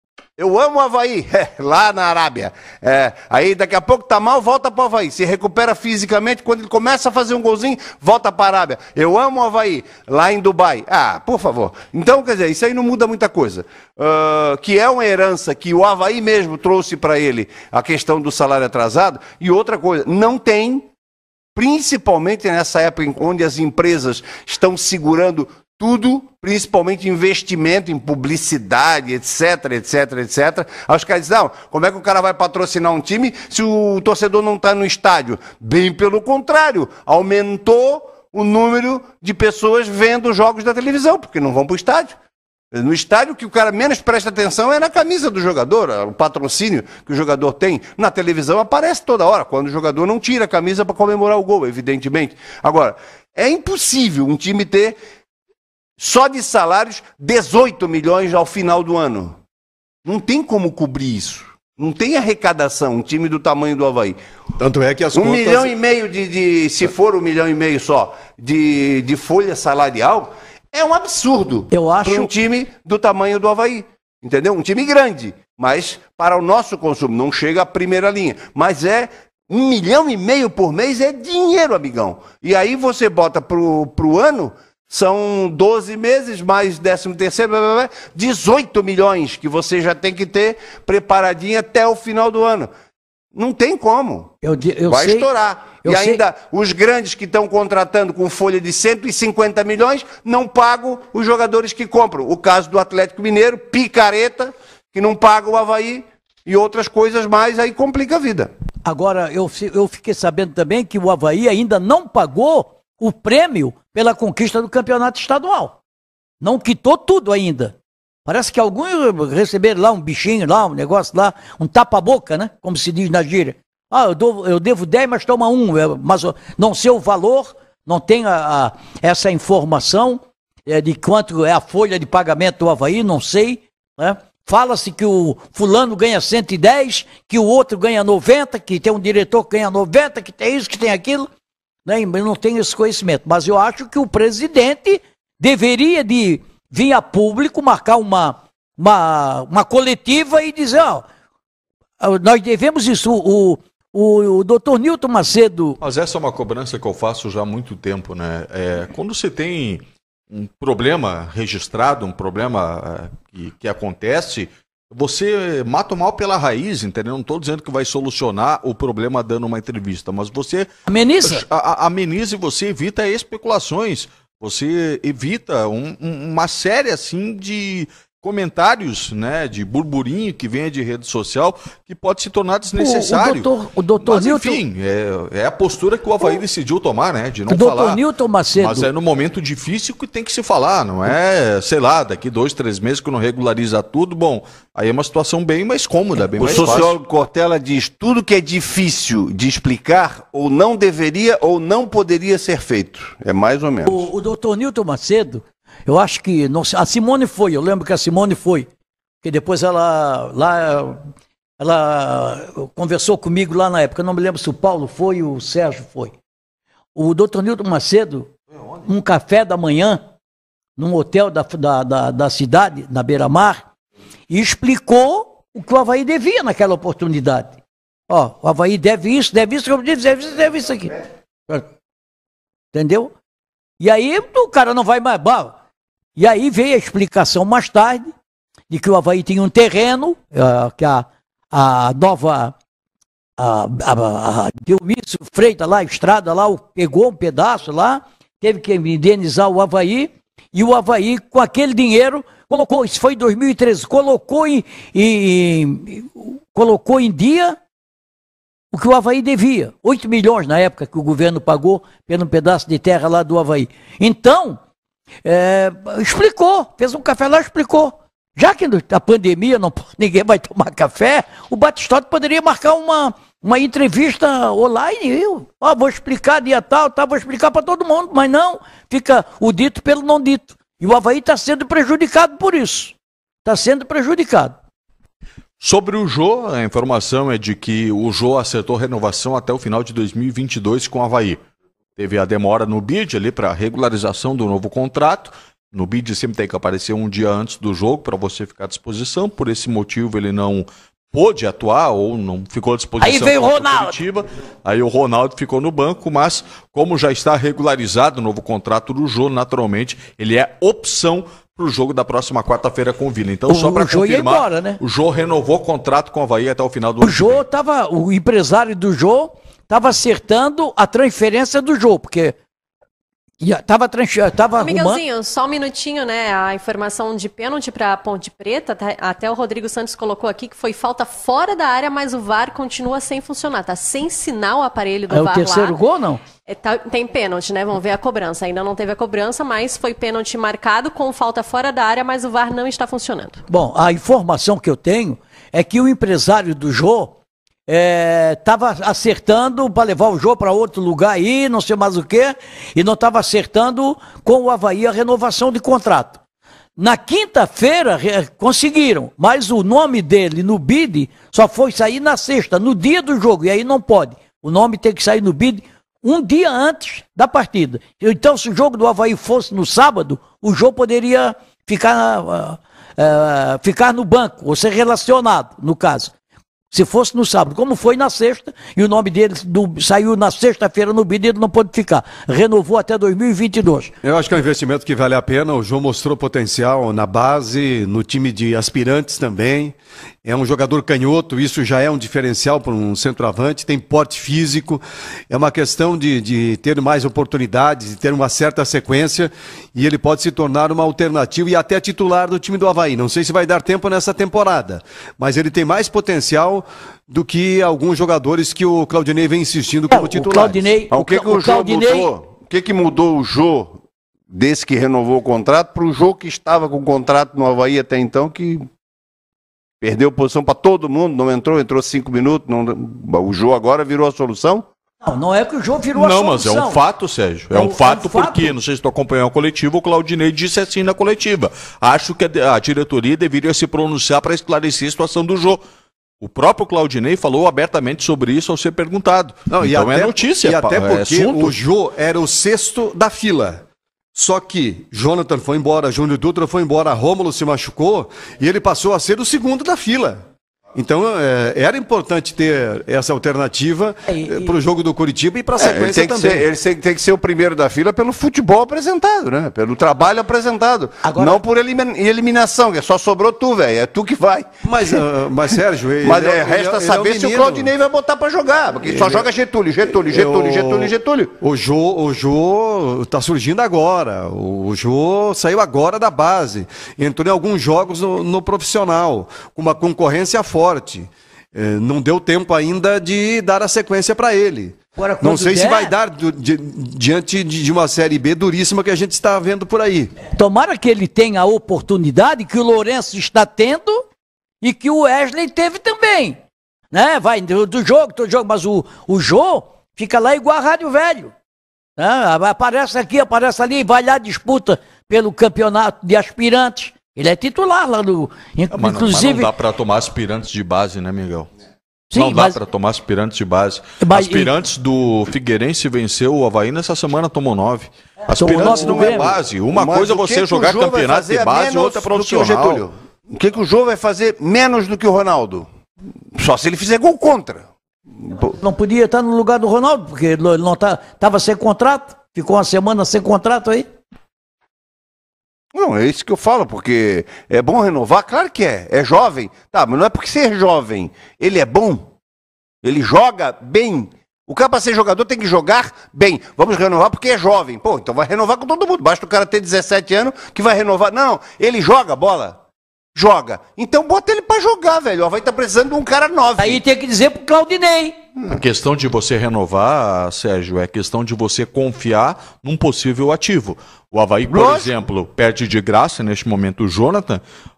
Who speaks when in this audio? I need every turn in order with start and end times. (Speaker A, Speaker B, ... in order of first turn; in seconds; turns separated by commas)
Speaker A: 0.4-20.9, Speaker A: 21.5-42.1, Speaker A: 42.7-55.0, Speaker A: 56.0-59.4, Speaker A: 60.0-64.2, Speaker B: 64.6-65.7, Speaker A: 65.1-92.7, Speaker C: 71.7-72.3, Speaker A: 93.3-94.3, Speaker C: 94.4-95.3, Speaker A: 94.9-108.5, Speaker C: 95.8-96.2, Speaker C: 108.8-115.8, Speaker C: 116.4-117.7, Speaker C: 118.2-141.3, Speaker C: 141.8-151.0, Speaker C: 152.0-155.8, Speaker D: 155.8-170.7, Speaker C: 170.9-171.4, Speaker D: 171.2-183.5, Speaker C: 182.8-184.6, Speaker D: 184.0-188.0, Speaker C: 187.5-188.9, Speaker D: 188.6-196.9, Speaker C: 196.2-196.8, Speaker A: 196.4-204.1, Speaker C: 203.8-208.7, Speaker C: 209.2-211.0, Speaker C: 211.6-216.1, Speaker C: 216.9-218.3, Speaker C: 218.9-220.0, Speaker C: 220.8-223.6, Speaker C: 224.3-227.6, Speaker C: 228.1-231.0, Speaker C: 232.7-233.1, Speaker C: 233.8-235.5, Speaker C: 236.2-238.1, Speaker C: 238.7-242.5, Speaker C: 243.4-257.6, Speaker C: 258.7-264.6, Speaker C: 265.2-284.5, Speaker D: 285.6-291.4, Speaker D: 291.9-317.4, Speaker C: 303.0-304.0, Speaker C: 313.5-314.8, Speaker C: 317.0-322.3, Speaker C: 323.4-325.0, Speaker E: 324.6-335.8, Speaker C: 335.1-336.2, Speaker E: 336.5-343.4, Speaker C: 343.5-347.1, Speaker C: 347.7-356.2, Speaker C: 356.8-376.1, Speaker C: 376.7-383.9, Speaker B: 384.0-410.7, Speaker C: 409.9-412.1, Speaker A: 410.9-413.8, Speaker A: 414.3-418.7, Speaker A: 419.8-424.6, Speaker C: 425.0-426.8, Speaker D: 425.9-435.6, Speaker C: 427.5-428.5, Speaker D: 436.2-441.5, Speaker B: 439.5-443.6, Speaker B: 444.1-450.2, Speaker B: 450.7-456.5, Speaker C: 454.1-454.5, Speaker A: 455.6-465.0, Speaker C: 461.0-461.4, Speaker B: 464.6-467.7, Speaker A: 466.0-471.3, Speaker B: 468.8-469.3, Speaker B: 469.9-490.1, Speaker C: 485.0-485.9, Speaker C: 490.3-494.1, Speaker C: 494.6-496.4, Speaker C: 496.9-501.3, Speaker C: 502.0-509.5, Speaker D: 508.7-511.5, Speaker C: 512.1-512.6, Speaker D: 512.1-522.9, Speaker C: 514.0-514.5, Speaker C: 518.3-519.3, Speaker A: 518.3-525.7, Speaker A: 526.4-527.6, Speaker C: 528.4-533.9, Speaker A: 535.7-542.0, Speaker A: 542.8-552.6, Speaker A: 553.1-556.8, Speaker C: 556.6-558.1, Speaker D: 558.5-567.4, Speaker A: 564.5-565.0